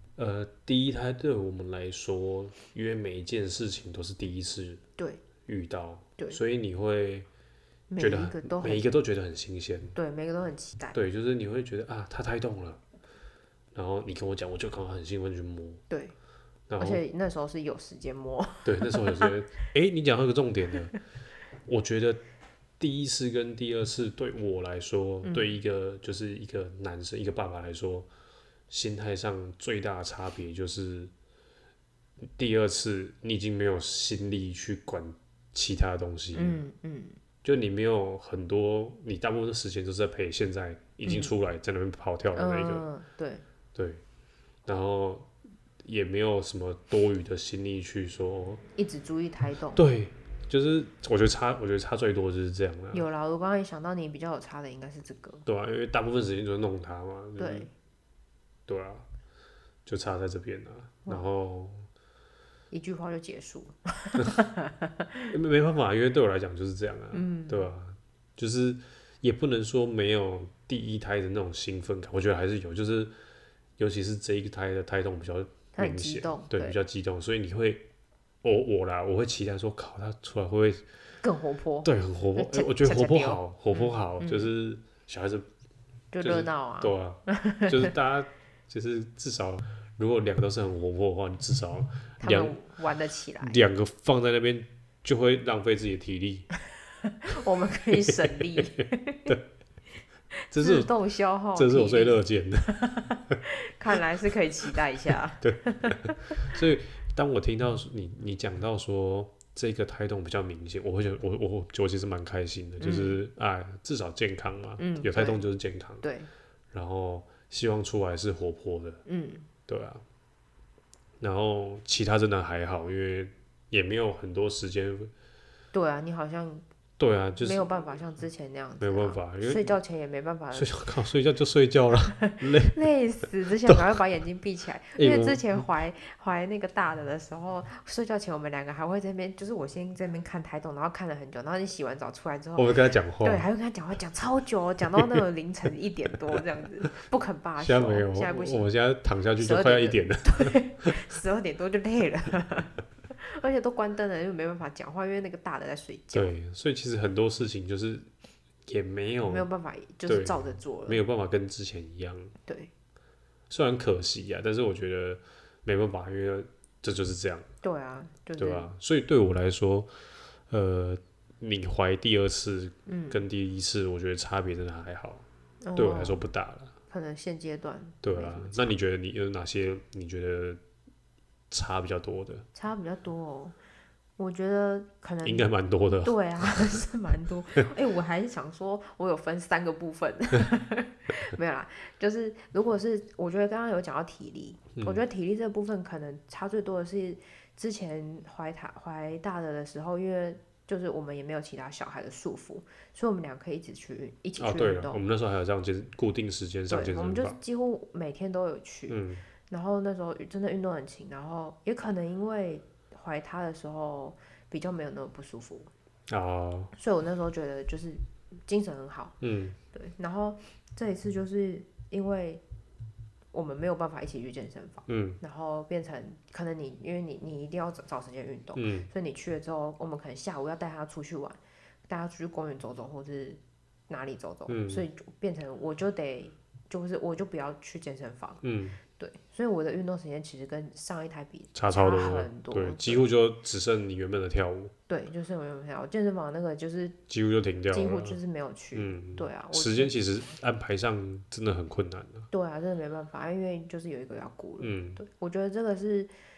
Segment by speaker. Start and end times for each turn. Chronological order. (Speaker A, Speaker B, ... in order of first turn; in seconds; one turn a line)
Speaker A: 0.2-4.8
Speaker B: 5.0-5.2
Speaker A: 5.5-7.3
Speaker B: 7.9-8.9
Speaker A: 8.0-10.0
Speaker B: 9.9-11.0
Speaker A: 10.9-12.8
Speaker A: 13.7-15.8
Speaker A: 16.7-17.0
Speaker B: 16.8-19.3
Speaker A: 18.6-20.9
Speaker A: 21.7-22.2
Speaker A: 22.8-28.1
Speaker B: 25.2-25.6
Speaker A: 28.7-31.1
Speaker A: 32.2-36.6
Speaker B: 36.3-37.2
Speaker A: 37.4-42.9
Speaker B: 41.0-41.3
Speaker B: 42.3-43.4
Speaker A: 43.8-44.0
Speaker A: 44.7-45.3
Speaker A: 45.8-48.6
Speaker B: 48.8-49.8
Speaker A: 49.7-53.1
Speaker B: 52.9-55.5
Speaker A: 55.5-57.7
Speaker B: 57.4-57.7
Speaker A: 58.7-59.0
Speaker A: 59.9-61.9
Speaker B: 62.7-65.3
Speaker A: 65.3-73.1
Speaker B: 67.1-67.7
Speaker A: 73.8-77.9
Speaker B: 75.8-76.8
Speaker A: 78.4-80.8
Speaker B: 81.2-84.5
Speaker A: 81.8-85.5
Speaker B: 86.1-87.9
Speaker A: 86.2-92.6
Speaker B: 92.2-93.6
Speaker A: 93.4-96.5
Speaker B: 97.0-99.4
Speaker A: 97.9-99.4
Speaker A: 100.5-100.9
Speaker B: 100.6-106.6
Speaker A: 101.5-103.4
Speaker A: 105.4-116.0
Speaker B: 112.8-113.2
Speaker B: 114.8-115.4
Speaker B: 116.0-116.3
Speaker A: 116.7-119.0
Speaker B: 119.1-119.5
Speaker A: 119.7-120.0
Speaker A: 121.2-125.1
Speaker B: 125.7-126.6
Speaker A: 127.0-127.8
Speaker B: 127.4-130.8
Speaker A: 128.8-129.8
Speaker A: 130.5-132.8
Speaker B: 132.2-148.7
Speaker A: 135.0-135.7
Speaker A: 142.6-143.5
Speaker A: 147.6-151.0
Speaker B: 149.4-156.3
Speaker A: 156.1-158.1
Speaker A: 158.7-159.5
Speaker B: 159.3-161.0
Speaker A: 160.1-162.3
Speaker B: 162.5-162.7
Speaker A: 163.5-167.5
Speaker B: 167.6-168.7
Speaker A: 168.4-169.9
Speaker A: 170.5-175.2
Speaker B: 172.9-173.2
Speaker B: 175.6-176.2
Speaker A: 175.8-176.7
Speaker B: 176.9-178.7
Speaker A: 178.0-180.6
Speaker A: 181.5-182.5
Speaker B: 182.5-183.6
Speaker B: 184.2-205.0
Speaker A: 185.2-186.8
Speaker A: 194.8-195.0
Speaker A: 204.4-207.4
Speaker B: 206.7-215.7
Speaker A: 208.9-209.2
Speaker A: 216.1-216.7
Speaker B: 216.8-219.2
Speaker A: 219.2-219.6
Speaker B: 219.7-222.4
Speaker B: 223.3-238.4
Speaker A: 224.9-225.2
Speaker A: 228.6-228.9
Speaker A: 234.5-234.8
Speaker A: 238.4-238.8
Speaker B: 239.0-243.1
Speaker A: 241.6-244.7
Speaker B: 244.9-247.0
Speaker A: 247.1-248.2
Speaker B: 247.7-250.0
Speaker A: 248.7-252.3
Speaker B: 252.3-256.1
Speaker A: 254.6-255.0